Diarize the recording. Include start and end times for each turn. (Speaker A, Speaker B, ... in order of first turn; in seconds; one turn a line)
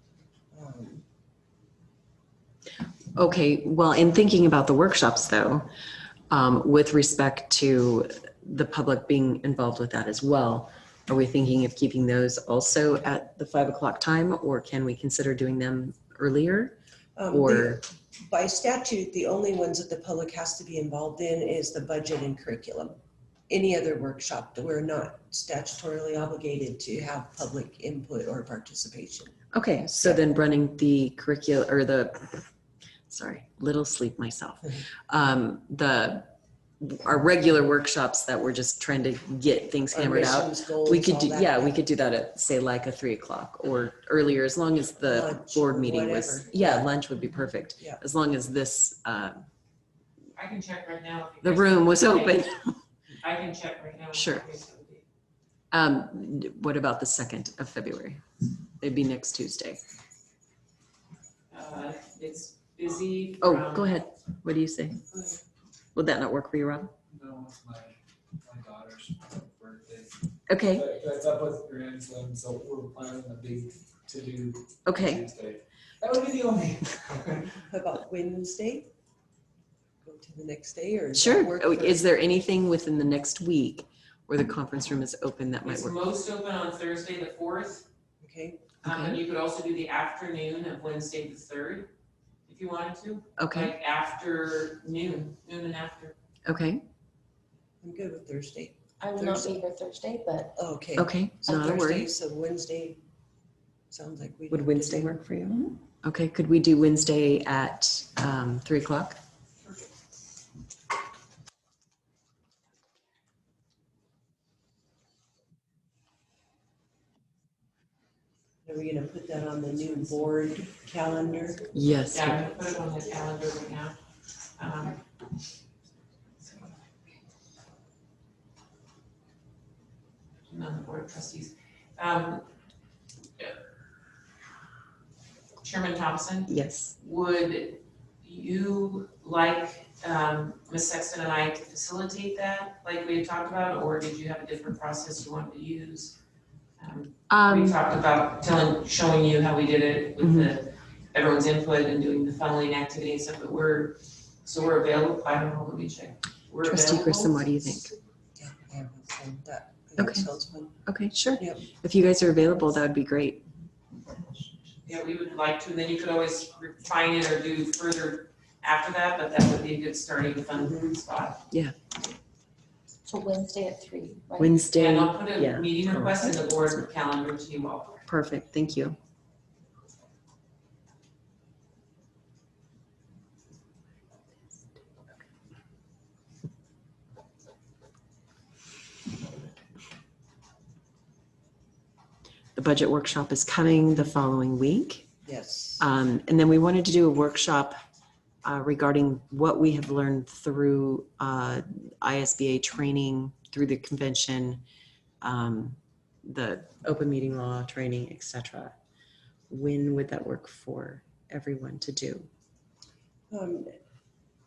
Speaker A: 0.5-1.0
Speaker B: 3.2-5.7
Speaker B: 6.3-16.8
Speaker A: 17.2-23.0
Speaker B: 17.3-17.8
Speaker A: 23.5-29.3
Speaker B: 29.5-32.5
Speaker B: 33.1-36.3
Speaker B: 36.8-49.5
Speaker A: 39.9-41.8
Speaker A: 45.0-46.9
Speaker C: 50.4-52.4
Speaker B: 51.4-52.8
Speaker C: 53.2-55.0
Speaker B: 54.1-54.5
Speaker B: 55.7-58.2
Speaker B: 58.8-59.8
Speaker C: 61.5-64.0
Speaker B: 63.4-65.0
Speaker C: 65.1-65.4
Speaker B: 65.9-66.9
Speaker D: 67.1-77.5
Speaker B: 70.5-70.8
Speaker B: 74.8-75.2
Speaker A: 77.7-78.9
Speaker A: 80.0-82.0
Speaker B: 81.1-86.0
Speaker C: 85.7-87.9
Speaker A: 88.2-88.6
Speaker B: 88.8-89.2
Speaker C: 88.8-91.9
Speaker C: 92.5-96.1
Speaker B: 93.4-93.7
Speaker B: 96.5-96.8
Speaker A: 97.8-99.6
Speaker E: 99.0-100.5
Speaker A: 100.5-103.0
Speaker B: 101.0-102.1
Speaker A: 103.9-105.1
Speaker B: 104.5-109.2
Speaker A: 118.6-121.7
Speaker B: 121.7-122.5
Speaker C: 122.1-124.0
Speaker C: 124.6-125.0
Speaker C: 130.5-132.4
Speaker C: 135.6-146.2
Speaker B: 136.5-136.9
Speaker C: 146.8-157.3
Speaker B: 147.3-147.8
Speaker B: 150.2-150.5
Speaker B: 156.6-157.9
Speaker A: 158.4-160.8
Speaker B: 160.0-160.3
Speaker B: 160.9-163.5
Speaker A: 161.4-161.7
Speaker C: 164.9-171.4
Speaker A: 170.6-170.9
Speaker E: 173.1-174.6
Speaker B: 174.4-176.9
Speaker C: 174.7-178.1
Speaker B: 178.1-179.0
Speaker B: 192.6-195.1
Speaker A: 195.2-195.8
Speaker B: 195.8-197.7
Speaker B: 198.4-204.6
Speaker B: 205.2-208.7
Speaker B: 209.5-212.3
Speaker A: 213.3-213.7